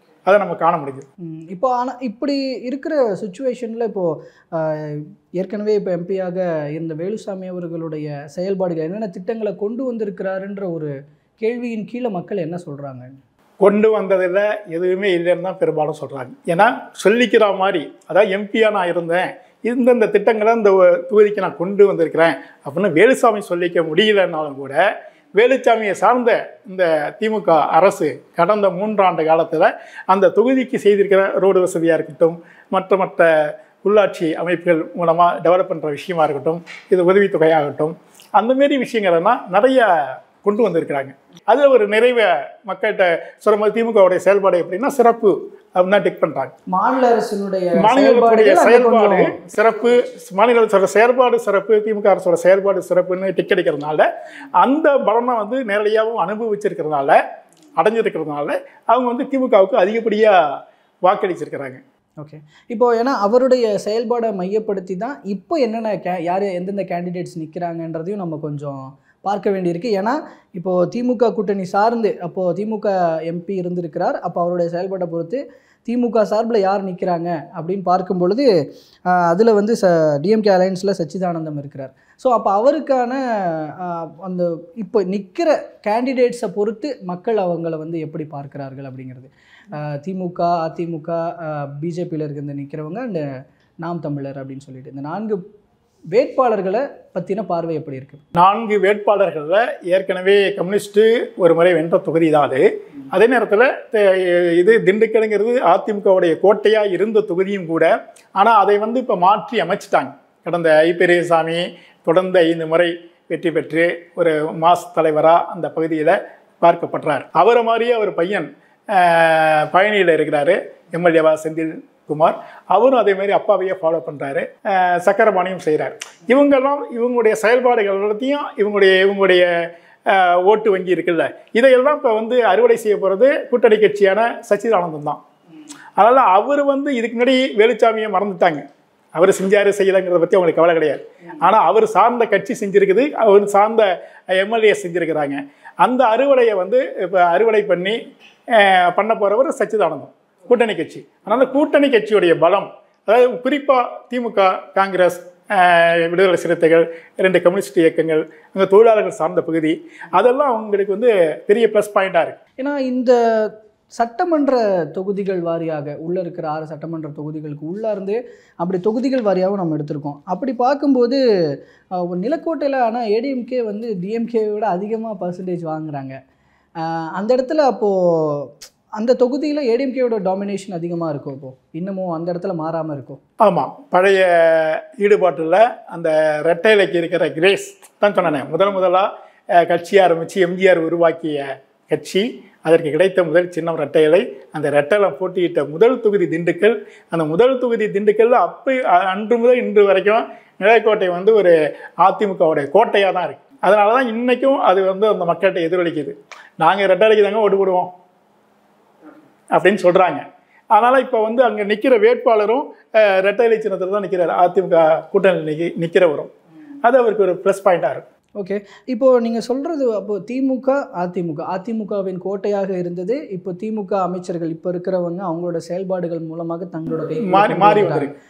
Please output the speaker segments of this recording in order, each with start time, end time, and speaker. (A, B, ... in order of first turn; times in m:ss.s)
0:00.3-0:01.1 A
0:01.2-0:13.2 B
0:13.6-0:24.8 A
0:25.4-0:33.3 A
0:33.8-0:39.9 A
0:40.4-0:46.5 A
0:46.7-0:49.4 B
0:47.8-0:54.1 A
0:54.6-0:57.2 A
0:57.8-1:00.4 A
1:01.0-1:01.8 A
1:02.2-1:18.5 B
1:19.1-1:33.3 B
1:33.8-1:35.4 B
1:36.1-1:38.2 B
1:38.3-2:09.5 A
2:10.1-2:15.2 A
2:16.0-2:18.6 A
2:19.2-2:28.0 A
2:28.5-2:42.4 A
2:42.6-2:51.2 B
2:51.9-2:56.2 B
2:56.8-3:03.2 B
3:03.4-3:27.9 A
3:29.5-3:36.3 A
3:36.8-3:38.0 A
3:38.4-3:48.1 B
3:47.2-3:48.1 A